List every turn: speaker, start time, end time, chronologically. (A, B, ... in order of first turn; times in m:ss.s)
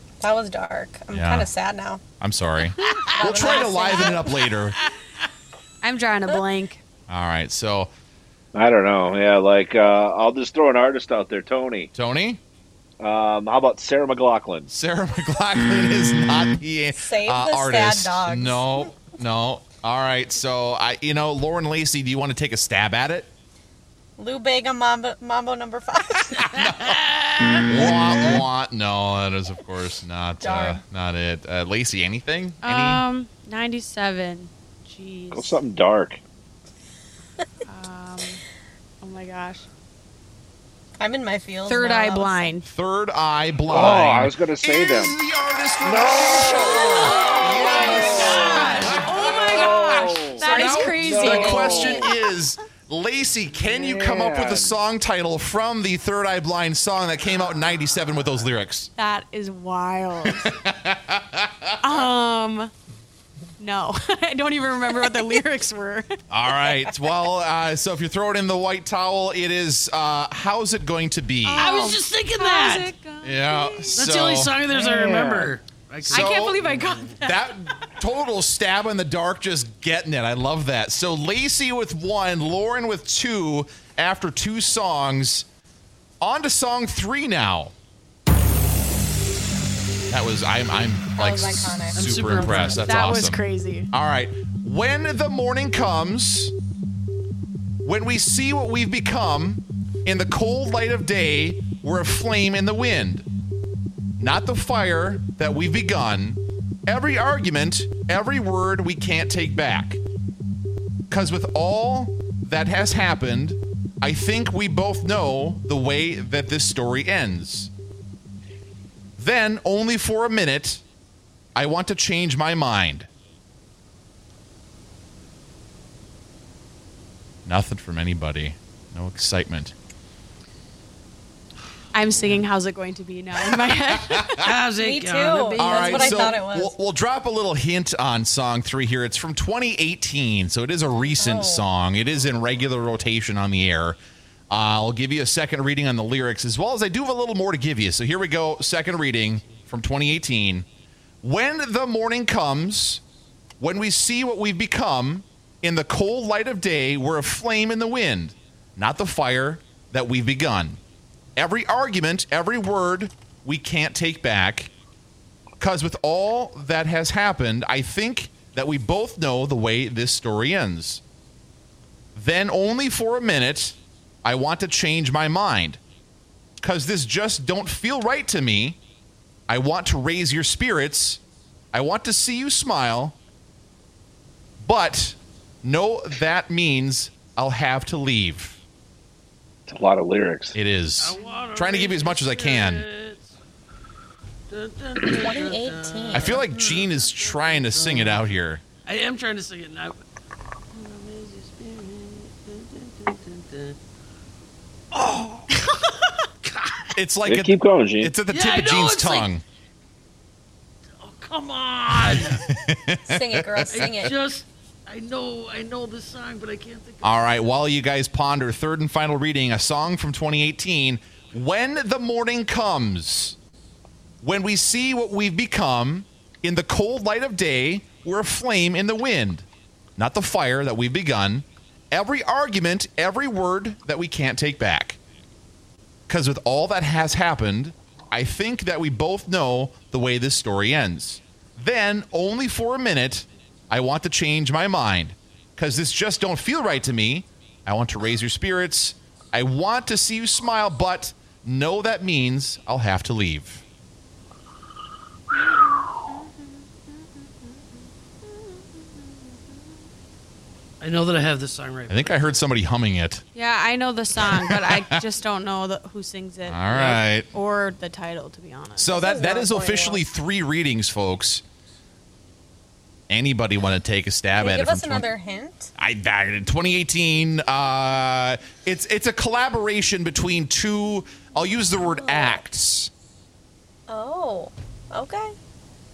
0:00.2-0:02.0 A
0:01.1-0:01.5 B
0:02.2-0:04.8 B
0:02.8-0:03.1 C
0:03.1-0:04.3 A
0:03.4-0:03.6 D
0:05.8-0:06.8 D
0:07.1-0:07.9 B
0:08.5-0:11.9 E
0:11.9-0:12.4 B
0:13.0-0:14.7 E
0:14.7-0:23.3 B
0:16.9-0:18.8 A
0:24.2-0:26.7 A
0:26.3-0:27.0 B
0:26.9-0:27.6 C
0:27.6-0:33.0 B
0:27.7-0:28.4 A
0:30.4-0:30.8 A
0:32.6-0:35.6 D
0:35.3-0:36.2 E
0:37.6-0:38.4 D
0:39.0-0:39.6 D
0:41.0-0:42.5 A
0:41.7-0:42.7 D
0:42.7-0:49.0 B
0:43.7-0:45.2 E
0:45.8-0:47.0 E
0:46.6-0:52.1 D
0:46.7-0:48.4 A
0:47.6-0:52.0 E
0:50.4-0:52.1 A
0:50.4-0:58.9 B
0:53.6-0:54.8 E
0:59.0-1:00.6 D
1:00.2-1:01.7 B
1:01.8-1:02.7 D
1:03.6-1:06.1 D
1:06.3-1:11.7 B
1:06.6-1:06.9 D
1:11.4-1:14.0 D
1:11.6-1:12.9 C
1:13.2-1:14.5 B
1:13.9-1:17.0 C
1:14.7-1:15.6 E
1:16.0-1:16.6 B
1:16.1-1:17.4 D
1:17.1-1:25.5 B
1:26.2-1:27.7 B
1:30.1-1:33.4 B
1:31.2-1:32.7 A
1:31.9-1:33.0 C
1:32.7-1:33.9 D
1:33.9-1:36.5 B
1:37.8-1:43.2 B
1:44.2-1:50.0 B
1:51.1-1:57.7 B
1:59.2-2:00.8 B
2:01.5-2:03.1 B
2:07.4-2:09.7 B
2:11.9-2:14.5 D
2:12.2-2:12.4 C
2:14.4-2:16.4 C
2:14.7-2:16.7 A
2:15.6-2:24.0 B
2:21.1-2:21.6 A
2:24.5-2:30.7 B
2:31.2-2:33.0 B
2:33.6-2:40.8 B
2:41.4-2:44.7 B
2:45.6-2:51.0 B
2:52.1-2:55.8 B
2:56.6-2:58.8 B
2:59.5-3:01.2 B
3:01.7-3:03.2 B
3:04.6-3:08.6 B
3:09.7-3:10.6 E
3:10.5-3:12.8 B
3:11.0-3:13.3 C
3:14.5-3:18.2 C
3:15.1-3:16.5 A
3:16.1-3:18.6 B
3:18.8-3:20.0 C
3:20.7-3:23.8 C
3:24.9-3:26.9 C
3:26.9-3:29.4 B
3:27.2-3:28.1 E
3:28.3-3:29.3 C
3:31.0-3:32.4 C
3:32.0-3:34.1 B
3:33.1-3:34.1 A
3:33.7-3:37.2 C
3:37.0-3:43.4 B
3:44.2-3:49.4 B
3:50.0-3:55.0 B
3:56.1-4:13.6 B
4:16.1-4:16.5 D
4:18.3-4:19.2 D
4:20.8-4:22.2 C
4:21.9-4:23.2 B
4:23.3-4:28.9 D
4:24.2-4:25.0 B
4:26.4-4:27.3 B
4:28.8-4:31.4 B
4:28.9-4:30.0 A
4:33.1-4:35.1 B
4:34.4-4:35.7 A
4:35.8-4:42.9 B
4:43.9-4:45.3 A